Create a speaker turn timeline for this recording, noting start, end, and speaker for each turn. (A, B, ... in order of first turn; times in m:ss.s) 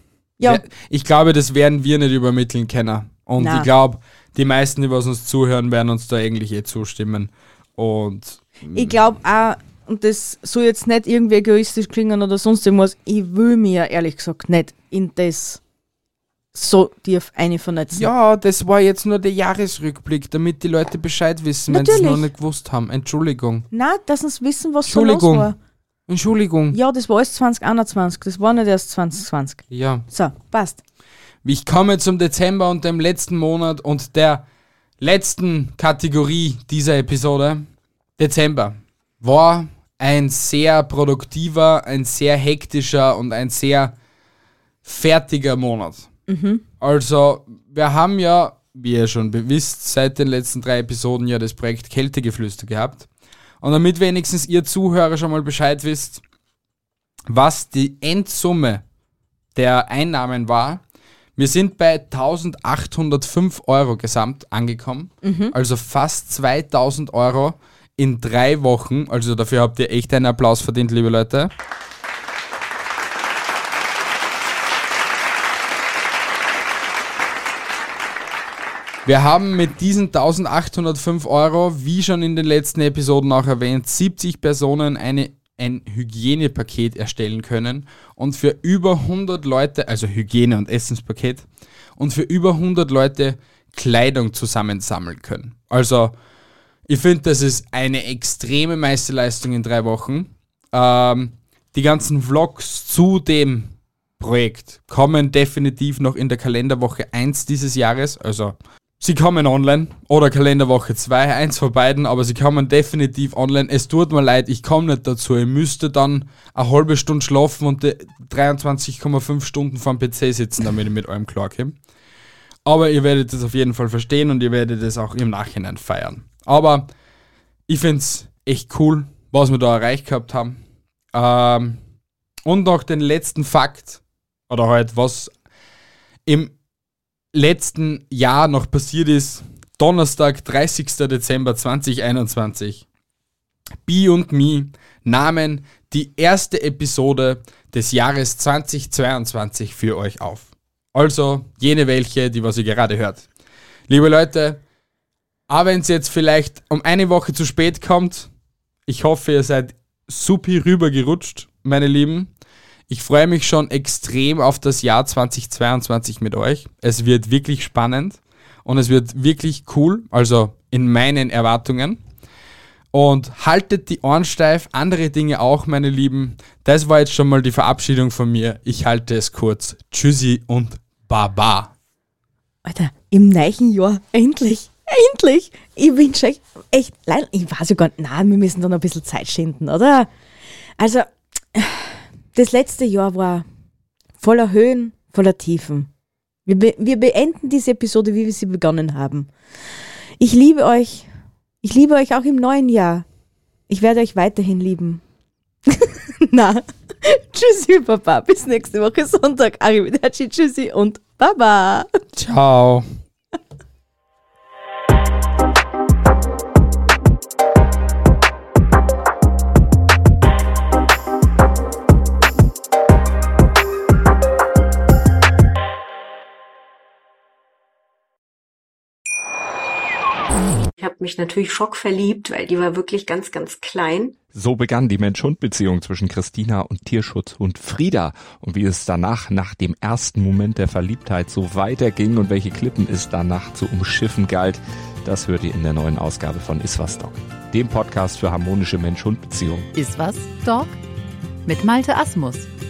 0:00.4-0:00.6 A
0:00.4-0:08.9 B
0:03.4-0:03.7 A
0:08.7-0:15.6 A
0:16.5-0:18.1 A
0:17.9-0:23.7 B
0:21.7-0:22.3 A
0:23.7-0:25.6 A
0:24.9-0:25.5 B
0:26.1-0:26.8 B
0:26.7-0:30.8 A
0:29.7-0:30.0 B
0:31.4-0:34.4 B
0:35.0-0:37.7 B
0:38.2-0:43.9 B
0:44.8-0:46.1 B
0:46.3-0:46.6 A
0:46.8-0:53.1 B
0:53.6-0:56.2 B
0:57.3-0:58.8 B
0:59.6-1:00.8 B
1:01.4-1:11.5 B
1:05.2-1:05.6 A
1:19.0-1:31.4 B
1:32.0-1:36.1 B
1:36.9-2:01.8 B
2:02.7-2:06.9 B
2:07.7-2:10.6 B
2:11.1-2:11.8 B
2:12.4-2:15.3 B
2:16.3-2:16.5 B
2:17.3-2:22.8 B
2:23.8-2:33.3 B
2:33.9-2:34.6 B
2:35.5-2:38.3 B
2:38.9-2:42.3 B
2:42.9-2:52.0 B
2:52.9-3:01.7 B
3:02.6-3:10.1 A
3:10.8-3:13.4 A
3:14.2-3:15.9 A
3:16.4-3:19.3 A
3:20.2-3:21.1 A
3:21.6-3:23.0 A
3:23.7-3:25.0 A
3:25.7-3:32.0 A
3:32.1-3:32.9 B
3:50.8-3:54.2 C
3:54.3-4:09.7 D
4:09.7-4:10.8 E
4:11.4-4:12.5 E